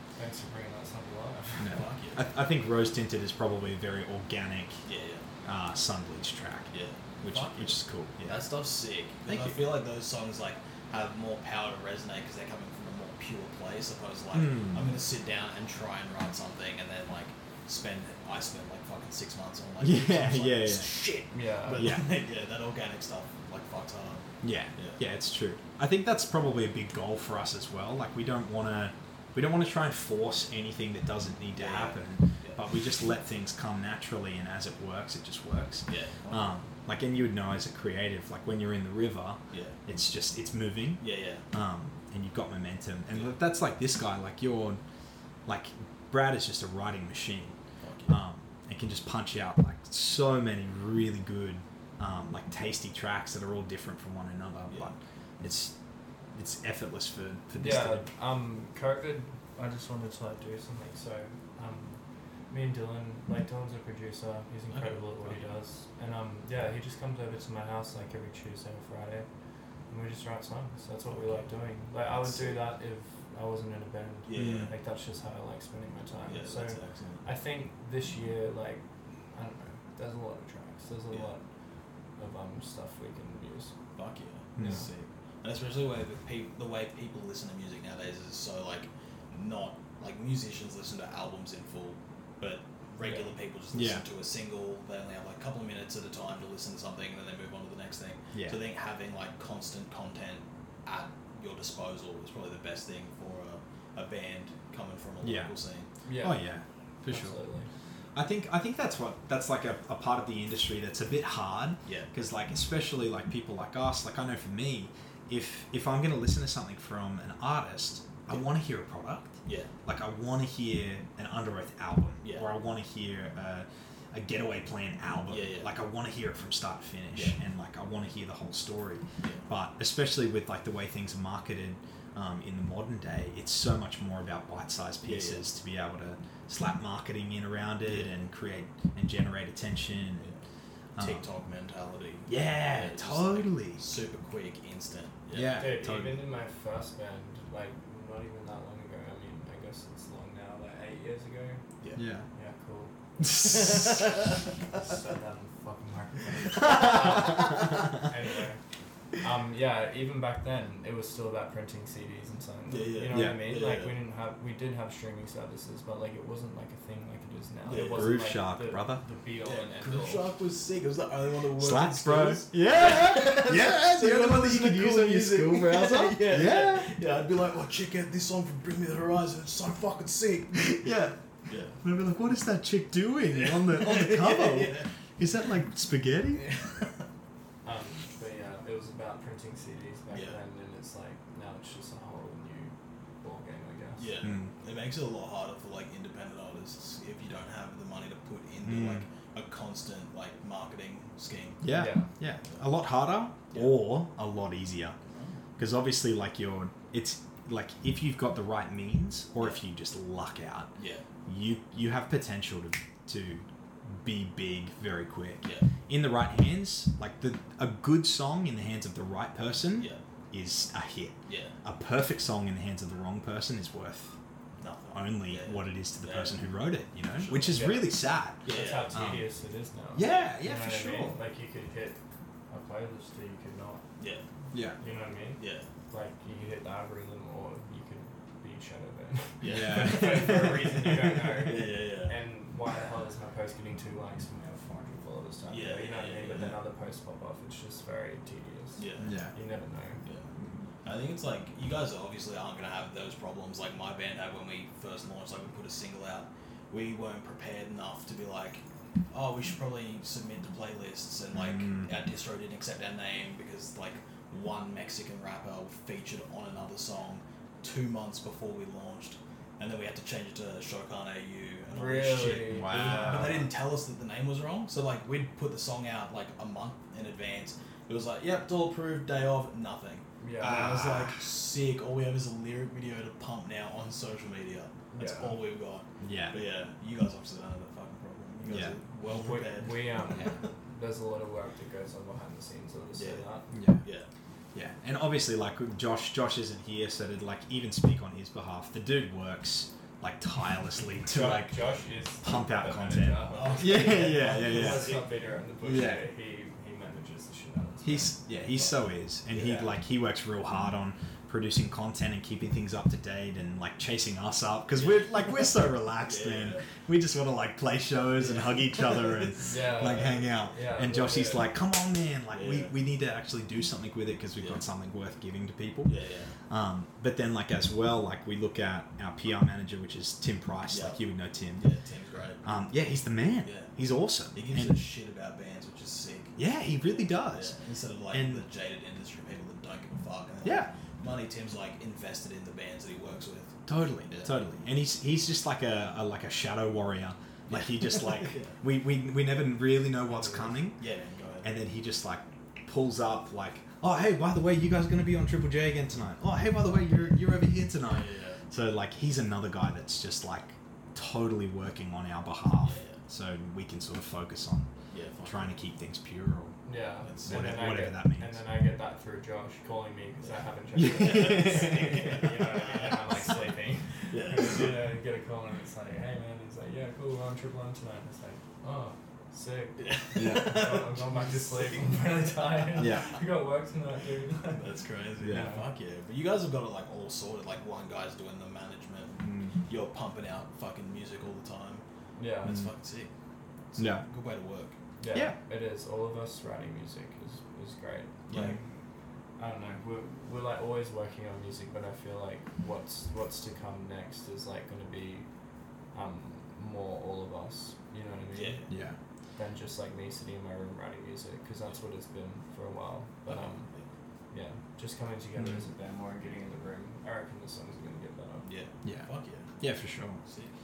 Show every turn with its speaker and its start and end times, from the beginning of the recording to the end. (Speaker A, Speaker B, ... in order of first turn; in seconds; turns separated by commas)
Speaker A: 0.1-1.7, Speaker B: 1.6-4.8, Speaker C: 1.7-2.2, Speaker C: 4.8-5.2, Speaker B: 5.4-8.4, Speaker C: 6.7-25.0, Speaker B: 9.2-9.6, Speaker B: 14.3-14.9, Speaker B: 19.8-20.9, Speaker A: 21.3-22.0, Speaker B: 21.7-22.1, Speaker B: 24.4-44.8, Speaker C: 31.5-32.6, Speaker C: 35.9-36.6, Speaker C: 39.5-39.8, Speaker C: 41.0-41.4, Speaker B: 45.5-55.7, Speaker C: 47.8-48.1, Speaker B: 56.3-58.1, Speaker A: 57.6-69.3, Speaker C: 64.7-65.4, Speaker A: 69.9-81.4, Speaker C: 71.1-71.5, Speaker C: 72.1-72.6, Speaker C: 74.3-74.7, Speaker B: 74.3-74.7, Speaker C: 76.3-77.2, Speaker A: 82.2-83.7, Speaker C: 84.0-105.9, Speaker B: 84.6-84.9, Speaker A: 84.6-84.9, Speaker A: 93.0-93.3, Speaker B: 93.7-94.0, Speaker B: 98.3-98.6, Speaker B: 105.2-105.5, Speaker A: 106.0-106.4, Speaker B: 106.2-107.4, Speaker A: 107.1-107.7, Speaker B: 108.1-140.3, Speaker C: 119.4-119.7, Speaker C: 122.2-122.5, Speaker C: 125.3-125.7, Speaker C: 135.0-135.4, Speaker C: 137.8-138.1, Speaker B: 140.9-141.2, Speaker C: 141.0-145.6, Speaker B: 142.3-143.8, Speaker B: 145.3-146.2, Speaker A: 145.5-151.6, Speaker B: 151.9-152.3, Speaker A: 152.3-152.9, Speaker B: 153.2-153.8, Speaker C: 153.4-154.1, Speaker A: 154.7-158.6, Speaker B: 156.7-157.5, Speaker A: 159.2-170.3, Speaker C: 162.7-164.0, Speaker B: 163.1-163.5, Speaker C: 167.7-168.2, Speaker B: 167.7-169.0, Speaker C: 169.4-180.9, Speaker B: 171.6-176.9, Speaker B: 180.6-181.2, Speaker C: 181.5-181.8, Speaker B: 181.8-186.5, Speaker C: 183.3-184.9, Speaker A: 187.6-194.1, Speaker C: 190.1-190.4, Speaker C: 194.0-201.7, Speaker B: 194.2-194.5, Speaker B: 198.6-199.0, Speaker B: 201.6-205.0, Speaker A: 201.7-202.1, Speaker C: 205.0-205.4, Speaker B: 205.6-210.7, Speaker C: 210.8-211.0, Speaker B: 211.2-224.1, Speaker C: 221.3-221.6, Speaker C: 224.6-226.3, Speaker B: 224.9-229.2, Speaker C: 227.2-227.6, Speaker A: 227.4-232.0, Speaker C: 228.4-229.0, Speaker B: 229.9-231.2, Speaker A: 232.5-233.8, Speaker C: 234.0-234.2, Speaker B: 234.5-234.8, Speaker A: 234.8-250.0, Speaker C: 235.4-235.7, Speaker C: 239.4-240.6, Speaker B: 239.4-240.7, Speaker C: 241.4-242.1, Speaker C: 245.5-246.5, Speaker C: 248.8-249.1, Speaker B: 249.0-249.3, Speaker C: 250.8-290.5, Speaker B: 261.3-261.9, Speaker A: 271.7-273.5, Speaker B: 272.4-273.5, Speaker A: 280.2-280.8, Speaker B: 280.4-281.2, Speaker A: 284.9-285.4, Speaker B: 286.0-286.4, Speaker B: 288.4-288.8, Speaker A: 289.0-293.5, Speaker C: 292.9-293.2, Speaker B: 293.5-293.8, Speaker C: 293.8-294.1, Speaker B: 294.5-301.6, Speaker A: 301.1-308.8, Speaker B: 302.2-305.0, Speaker C: 303.3-305.0, Speaker B: 305.6-306.0, Speaker B: 307.8-325.9, Speaker C: 309.3-309.7, Speaker C: 314.7-315.4, Speaker C: 316.0-316.7, Speaker C: 318.2-320.1, Speaker A: 319.4-321.5, Speaker C: 322.3-322.7, Speaker C: 325.8-326.4, Speaker B: 326.5-331.6, Speaker C: 330.7-331.0, Speaker C: 331.6-332.5, Speaker B: 332.4-334.8, Speaker C: 333.4-333.7, Speaker C: 334.3-344.4, Speaker B: 336.4-337.5, Speaker B: 338.1-338.4, Speaker B: 340.4-340.7, Speaker B: 343.7-350.8, Speaker C: 347.5-348.6, Speaker C: 350.8-351.6, Speaker B: 351.4-364.7, Speaker C: 357.8-358.4, Speaker C: 362.6-363.0, Speaker C: 364.9-365.6, Speaker B: 365.2-366.6, Speaker A: 366.6-384.7, Speaker C: 367.0-367.6, Speaker B: 367.2-368.4, Speaker B: 370.7-372.3, Speaker C: 370.9-373.5, Speaker C: 374.1-374.8, Speaker C: 379.8-382.9, Speaker B: 380.1-380.7, Speaker B: 382.8-383.1, Speaker C: 384.5-391.8, Speaker B: 385.2-385.5, Speaker A: 385.3-385.6, Speaker B: 389.2-389.6, Speaker A: 392.1-392.6, Speaker C: 392.4-393.1, Speaker C: 393.7-394.8, Speaker B: 393.8-394.1, Speaker A: 395.0-398.6, Speaker B: 395.1-395.4, Speaker B: 398.3-398.6, Speaker C: 398.3-398.6, Speaker A: 399.4-405.3, Speaker A: 405.9-408.6, Speaker C: 408.3-408.7, Speaker B: 408.7-409.0, Speaker A: 409.4-413.7, Speaker C: 413.2-413.9, Speaker A: 414.3-418.5, Speaker B: 415.4-415.6, Speaker C: 418.4-419.6, Speaker B: 418.8-420.2, Speaker C: 420.2-420.5